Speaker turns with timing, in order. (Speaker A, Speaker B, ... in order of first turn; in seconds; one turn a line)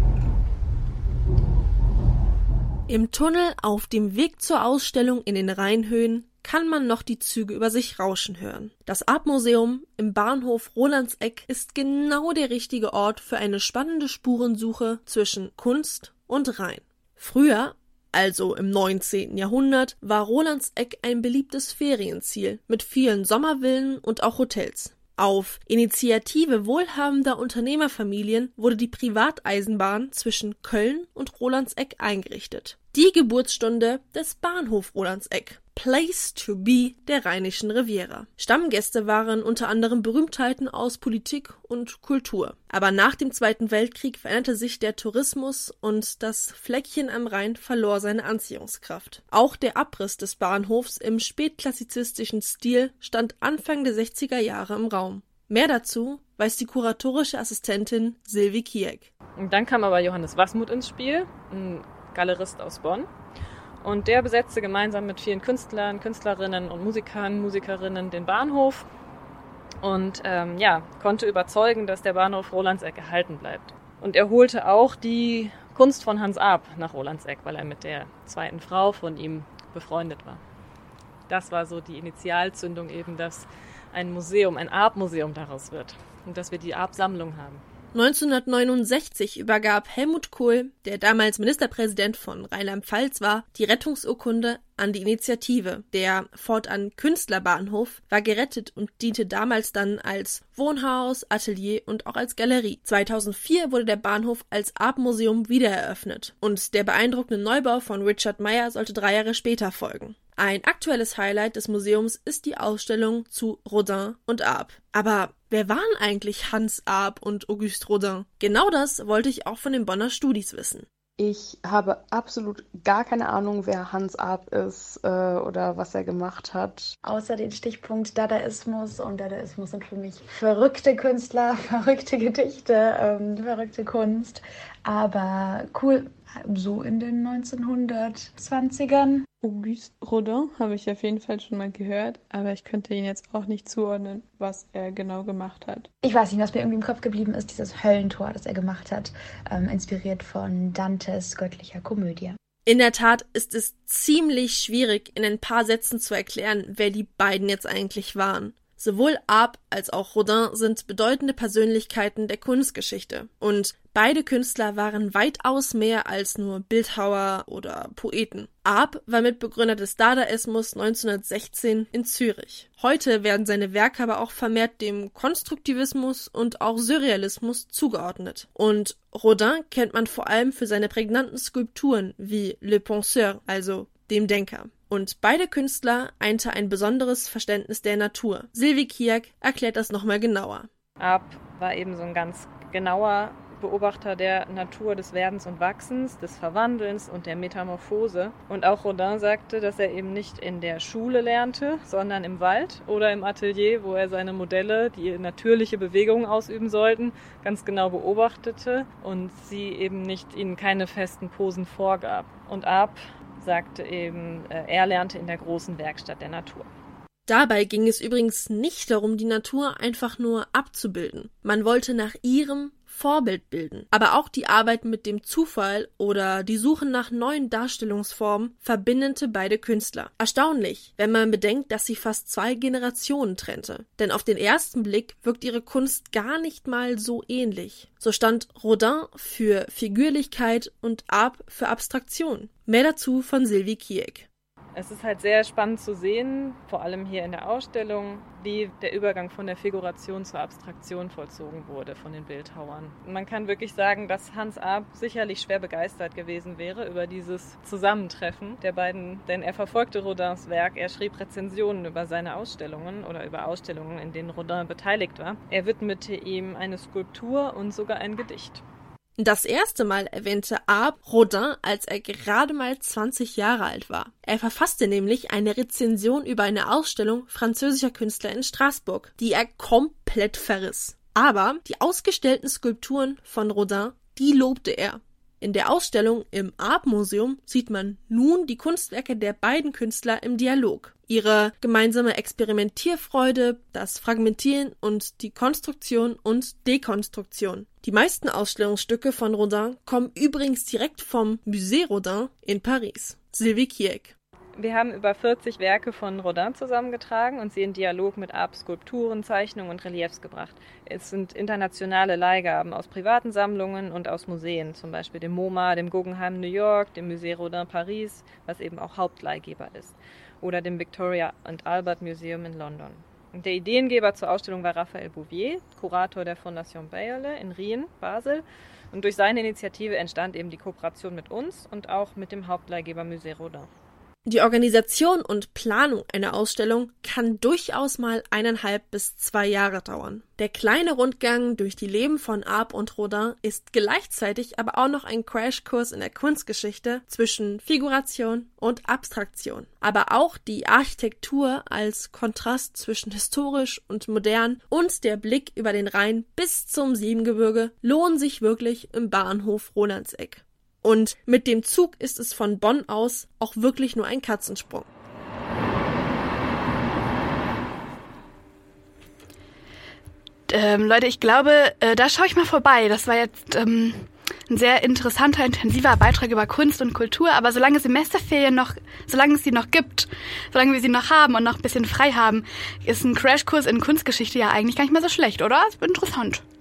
Speaker A: 2.9-59.1
Speaker B: 59.4-63.1
Speaker B: 63.8-68.9
Speaker B: 69.8-80.4
Speaker B: 81.3-87.6
Speaker A: 87.9-120.8
Speaker C: 121.2-126.9
Speaker D: 127.0-139.2
Speaker E: 139.4-145.9
Speaker D: 146.0-152.4
Speaker A: 152.7-190.7
Speaker B: 191.0-216.7
Speaker A: 217.3-244.3
Speaker B: 244.7-268.6
Speaker A: 269.2-304.1
Speaker B: 304.6-333.7
Speaker A: 334.2-364.9
Speaker F: 370.5-386.4